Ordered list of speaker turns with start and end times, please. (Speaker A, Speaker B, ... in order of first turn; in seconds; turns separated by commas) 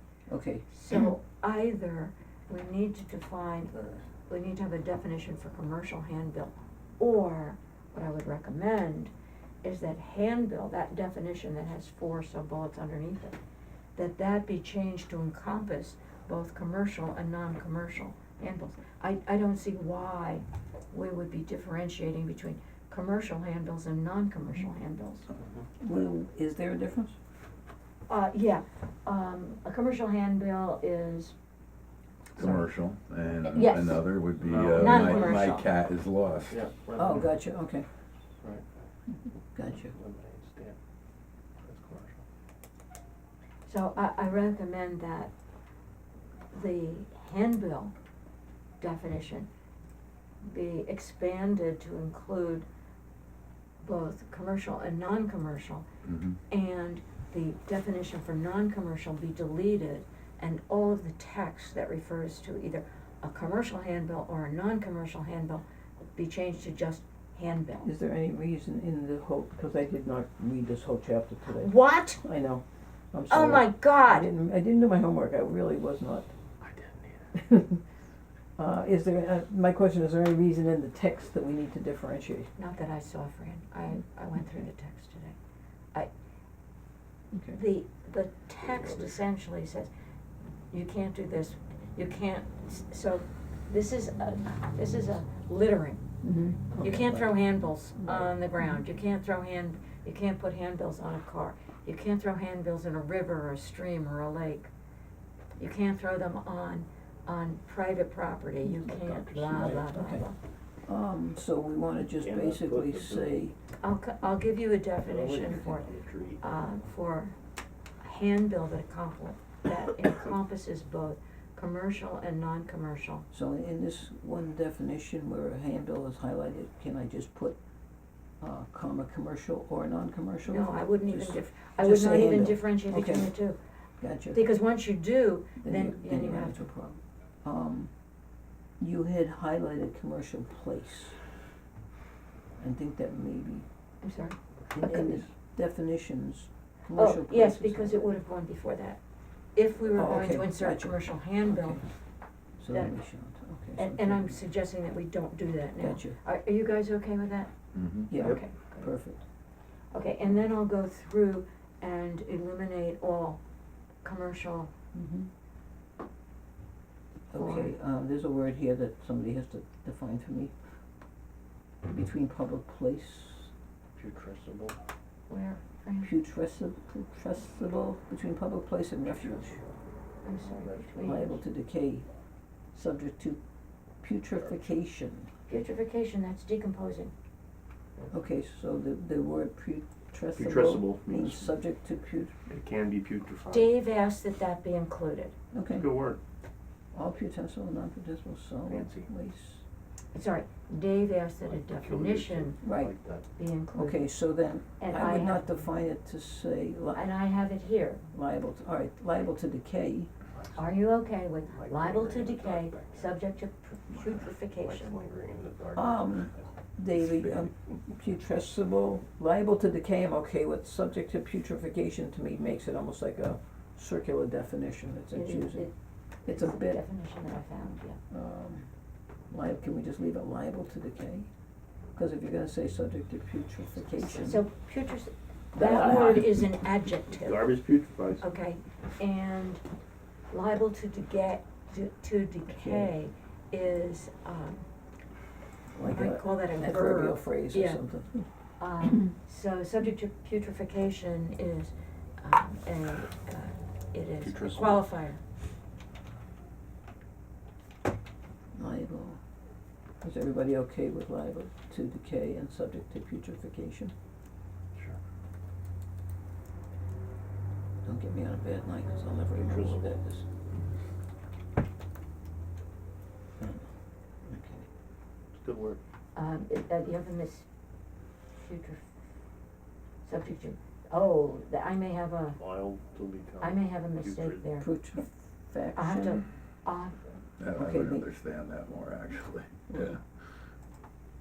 Speaker A: 0.3-0.7, Speaker B: 0.7-9.1, Speaker B: 9.6-13.4, Speaker B: 13.9-25.3, Speaker C: 25.4-25.7, Speaker A: 25.8-27.2, Speaker B: 28.1-31.4, Speaker D: 32.3-36.7, Speaker B: 33.5-35.7, Speaker C: 34.4-35.5, Speaker C: 36.5-37.4, Speaker A: 37.0-37.9, Speaker A: 39.5-39.9, Speaker C: 39.7-40.8, Speaker C: 41.6-42.2, Speaker B: 43.7-45.3, Speaker B: 46.5-47.9, Speaker B: 48.8-49.5, Speaker B: 50.4-52.7, Speaker B: 53.8-55.9, Speaker D: 56.0-56.4, Speaker B: 56.5-65.6, Speaker B: 66.1-67.9, Speaker A: 67.8-76.3, Speaker B: 71.5-72.2, Speaker B: 73.3-74.3, Speaker C: 76.6-77.3, Speaker A: 77.3-77.8, Speaker A: 78.6-82.5, Speaker B: 82.6-85.4, Speaker A: 87.3-87.6, Speaker B: 87.5-89.9, Speaker C: 88.6-89.2, Speaker B: 90.7-96.0, Speaker A: 96.2-97.3, Speaker B: 96.8-104.7, Speaker A: 98.0-98.8, Speaker B: 105.6-110.4, Speaker C: 108.7-109.9, Speaker A: 109.7-110.2, Speaker A: 110.9-113.5, Speaker C: 112.2-113.4, Speaker B: 113.8-115.9, Speaker C: 115.0-116.4, Speaker B: 116.4-117.4, Speaker B: 118.0-123.2, Speaker A: 123.3-127.6, Speaker A: 128.4-133.3, Speaker B: 130.5-133.6, Speaker A: 134.0-134.4, Speaker B: 134.3-136.7, Speaker A: 135.6-137.9, Speaker A: 138.8-141.2, Speaker A: 142.6-143.7, Speaker B: 144.0-144.4, Speaker C: 144.7-145.3, Speaker A: 144.8-148.1, Speaker B: 146.9-149.0, Speaker B: 149.5-151.8, Speaker A: 149.9-151.8, Speaker A: 152.6-154.4, Speaker B: 153.8-157.5, Speaker A: 155.8-156.2, Speaker D: 157.7-158.1, Speaker A: 158.1-159.2, Speaker B: 158.1-158.9, Speaker C: 158.2-158.4, Speaker B: 159.9-163.4, Speaker B: 164.0-164.7, Speaker A: 164.9-165.3, Speaker A: 167.3-170.6, Speaker B: 167.3-167.7, Speaker A: 171.8-173.5, Speaker C: 174.0-174.8, Speaker B: 175.3-176.1, Speaker A: 176.0-179.6, Speaker C: 179.0-179.8, Speaker B: 180.2-181.2, Speaker C: 180.3-181.4, Speaker A: 181.0-182.1, Speaker A: 182.7-183.4, Speaker A: 184.0-185.3, Speaker C: 184.4-184.7, Speaker B: 185.5-187.1, Speaker A: 188.1-192.3, Speaker C: 190.3-191.5, Speaker C: 192.5-193.8, Speaker B: 193.5-195.3, Speaker A: 195.5-195.9, Speaker C: 195.7-196.2, Speaker A: 196.9-199.6, Speaker C: 198.6-199.1, Speaker B: 200.1-202.6, Speaker C: 201.4-203.3, Speaker A: 202.6-202.9, Speaker B: 203.3-204.1, Speaker A: 203.7-207.1, Speaker B: 204.8-205.5, Speaker B: 206.9-208.0, Speaker A: 208.1-210.1, Speaker C: 210.3-210.8, Speaker B: 210.6-215.0, Speaker C: 211.5-213.1, Speaker C: 213.9-216.4, Speaker A: 215.8-225.7, Speaker D: 217.0-217.5, Speaker B: 225.1-228.0, Speaker A: 226.2-226.8, Speaker A: 228.1-228.7, Speaker A: 229.3-231.3, Speaker A: 231.9-234.5, Speaker B: 234.2-237.5, Speaker A: 235.5-236.3, Speaker C: 235.6-236.2, Speaker C: 237.1-238.3, Speaker B: 238.2-239.6, Speaker B: 240.3-244.7, Speaker A: 242.5-243.0, Speaker A: 245.7-248.3, Speaker B: 245.8-247.8, Speaker B: 248.6-255.2, Speaker C: 254.2-254.8, Speaker A: 258.6-259.2, Speaker A: 260.0-263.9, Speaker C: 264.7-265.0, Speaker A: 267.9-270.2, Speaker C: 269.3-270.0, Speaker A: 273.4-273.7, Speaker A: 274.2-274.6, Speaker C: 275.3-275.8, Speaker B: 276.1-277.5, Speaker B: 278.4-278.8, Speaker B: 280.1-282.4, Speaker C: 282.4-284.4, Speaker B: 283.4-284.7, Speaker A: 284.6-286.2, Speaker B: 285.8-287.0, Speaker D: 287.4-290.0, Speaker A: 287.6-288.1, Speaker A: 289.7-290.0